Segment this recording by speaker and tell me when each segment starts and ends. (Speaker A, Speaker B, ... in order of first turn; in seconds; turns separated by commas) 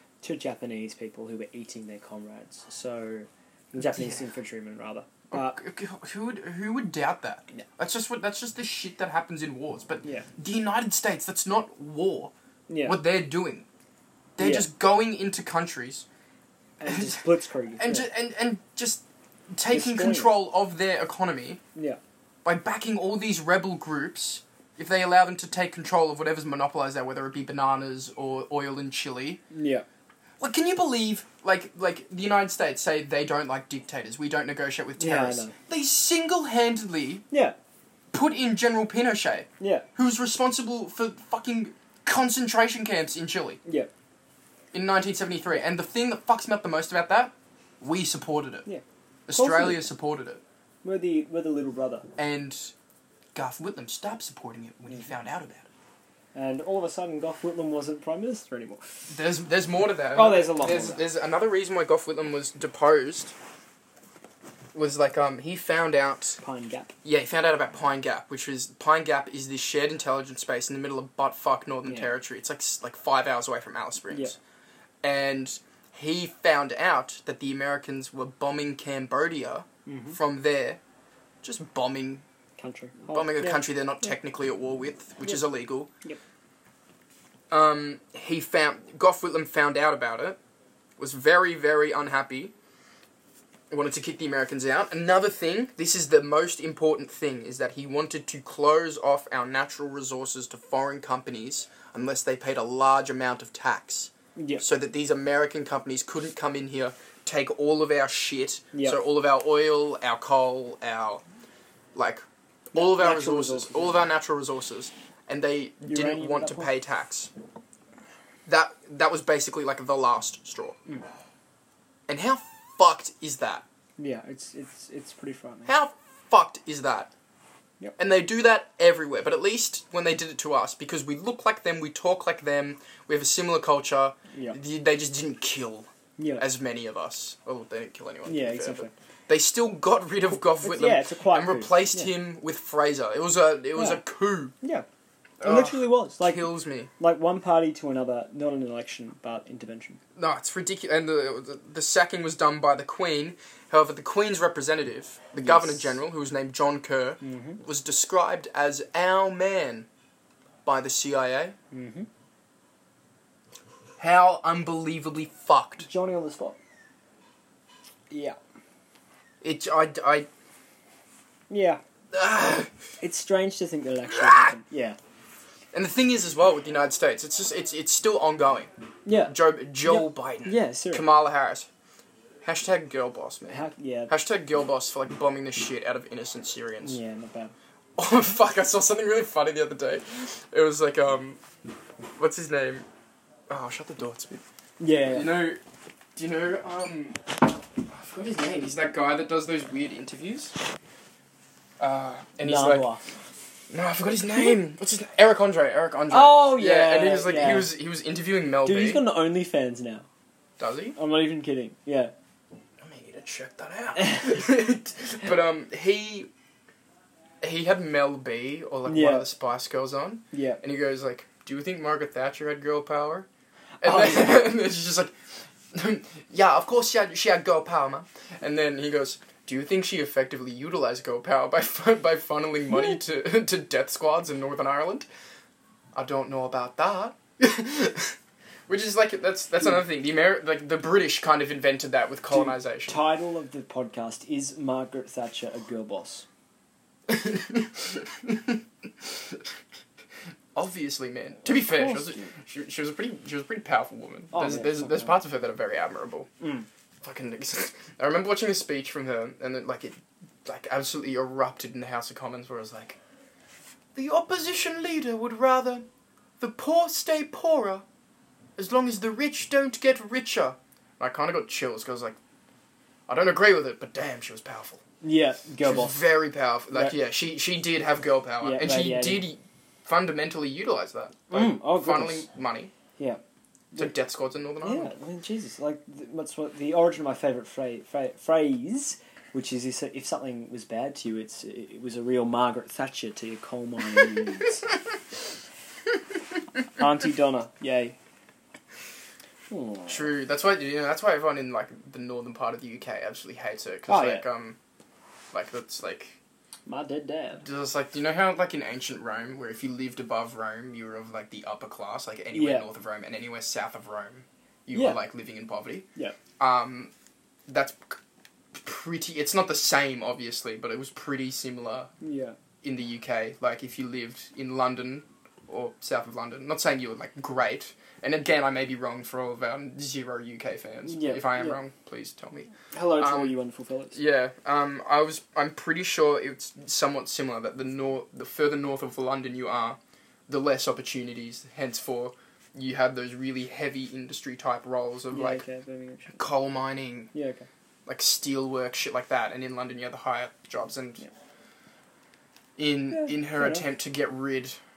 Speaker A: 0.2-5.6, Speaker B: 5.3-12.3, Speaker A: 12.7-13.0, Speaker B: 12.8-13.7, Speaker B: 14.4-16.1, Speaker A: 14.4-14.7, Speaker A: 16.8-18.1, Speaker B: 16.8-17.2, Speaker B: 17.8-21.6, Speaker A: 19.7-20.3, Speaker B: 22.4-29.4, Speaker A: 29.5-29.8, Speaker B: 30.4-37.2, Speaker A: 35.0-35.5, Speaker A: 37.3-37.5, Speaker B: 38.1-43.6, Speaker A: 39.6-39.9, Speaker A: 43.6-43.9, Speaker B: 44.7-48.7, Speaker A: 48.6-49.8, Speaker B: 49.3-50.4, Speaker A: 50.8-52.1, Speaker B: 52.2-52.7, Speaker B: 53.3-55.7, Speaker A: 56.3-59.0, Speaker B: 59.1-63.3, Speaker A: 60.1-61.0, Speaker B: 64.7-66.4, Speaker A: 66.4-66.9, Speaker B: 67.0-74.4, Speaker A: 71.8-72.1, Speaker B: 75.0-80.8, Speaker A: 79.8-80.2, Speaker B: 81.4-82.2, Speaker A: 82.6-83.6, Speaker B: 83.1-85.9, Speaker B: 87.5-90.4, Speaker B: 91.0-92.5, Speaker B: 93.7-111.2, Speaker A: 104.4-104.6, Speaker A: 108.7-109.0, Speaker B: 111.9-117.3, Speaker A: 112.7-114.0, Speaker A: 115.8-116.7, Speaker B: 118.5-120.8, Speaker B: 122.1-123.6, Speaker A: 124.0-125.7, Speaker B: 125.7-127.1, Speaker B: 128.0-144.5, Speaker A: 136.2-136.5, Speaker A: 138.2-138.9, Speaker A: 140.6-142.1, Speaker A: 143.7-144.0, Speaker A: 144.6-144.8, Speaker B: 145.4-146.9, Speaker A: 145.4-150.0, Speaker B: 150.2-159.9, Speaker A: 157.2-157.6, Speaker B: 160.6-161.6, Speaker A: 161.7-162.1, Speaker B: 164.0-165.8, Speaker A: 165.8-166.6, Speaker A: 168.1-168.4, Speaker B: 169.4-170.3, Speaker A: 171.5-171.8, Speaker B: 172.1-172.7, Speaker A: 173.0-175.0, Speaker B: 174.1-174.5, Speaker B: 175.7-181.7, Speaker A: 179.0-181.0, Speaker B: 182.4-187.0, Speaker A: 183.5-184.1, Speaker A: 186.8-187.5, Speaker B: 187.9-191.4, Speaker B: 192.2-192.8, Speaker B: 193.5-194.4, Speaker A: 194.8-195.3, Speaker B: 195.0-195.6, Speaker B: 196.2-200.6, Speaker B: 201.8-202.9, Speaker A: 202.4-203.0, Speaker B: 203.7-209.0, Speaker A: 206.1-207.7, Speaker A: 208.6-210.1, Speaker B: 210.6-211.0, Speaker A: 210.9-212.1, Speaker B: 212.8-216.3, Speaker A: 214.0-214.2, Speaker B: 217.4-223.3, Speaker A: 218.8-219.3, Speaker A: 220.3-220.6, Speaker A: 223.8-224.4, Speaker B: 223.8-235.1, Speaker B: 235.9-238.2, Speaker B: 238.7-243.0, Speaker A: 242.3-246.2, Speaker B: 247.1-249.5, Speaker B: 250.5-256.3, Speaker A: 251.4-252.3, Speaker A: 254.3-255.2, Speaker A: 256.4-256.6, Speaker B: 257.0-263.0, Speaker B: 263.9-265.9, Speaker B: 266.4-267.8, Speaker B: 268.6-272.2, Speaker B: 273.1-274.8, Speaker A: 275.0-276.0, Speaker B: 275.6-282.7, Speaker A: 278.4-279.3, Speaker A: 281.3-282.2, Speaker B: 283.8-284.9, Speaker A: 284.6-294.6, Speaker A: 296.8-297.9, Speaker A: 299.5-300.1, Speaker B: 299.9-304.6, Speaker A: 303.9-304.2, Speaker B: 305.3-306.2, Speaker A: 306.7-307.4, Speaker B: 307.4-315.9, Speaker A: 312.3-312.7, Speaker A: 314.7-315.0, Speaker B: 316.4-316.9, Speaker B: 317.5-318.0, Speaker B: 318.5-321.9, Speaker A: 322.0-322.4, Speaker B: 322.6-333.4, Speaker A: 330.8-331.6, Speaker A: 332.7-334.0, Speaker B: 333.9-345.4, Speaker A: 345.1-346.2, Speaker B: 346.1-347.1, Speaker A: 347.1-347.4, Speaker B: 347.9-351.0, Speaker B: 352.6-354.6, Speaker A: 352.9-353.6